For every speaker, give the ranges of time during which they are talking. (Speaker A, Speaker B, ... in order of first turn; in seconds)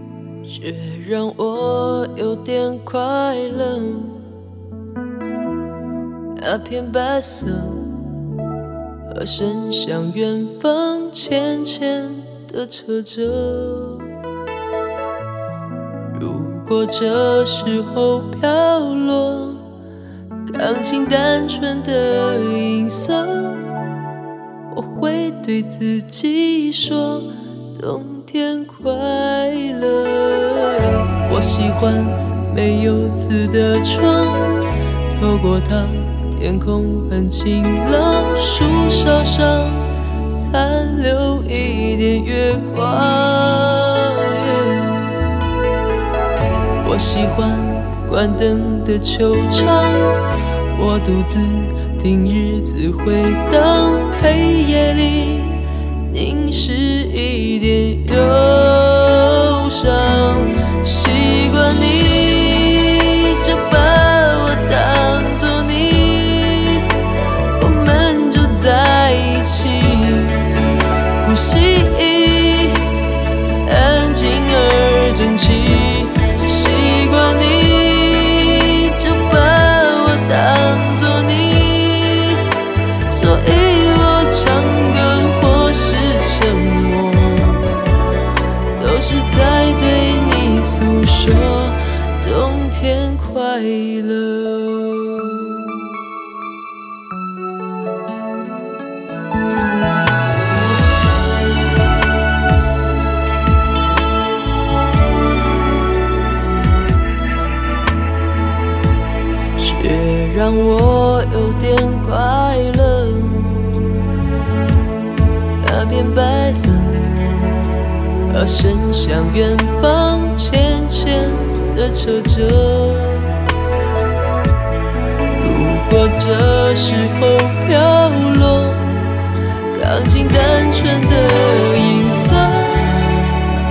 Speaker A: 0.5-4.3, 6.4-8.1, 9.1-14.2, 16.1-19.7, 20.5-24.0, 24.7-45.2, 46.8-66.9, 67.6-82.5, 83.1-87.8, 88.8-95.9, 109.6-113.9, 115.6-117.4, 118.3-123.4, 125.3-129.2, 129.7-133.3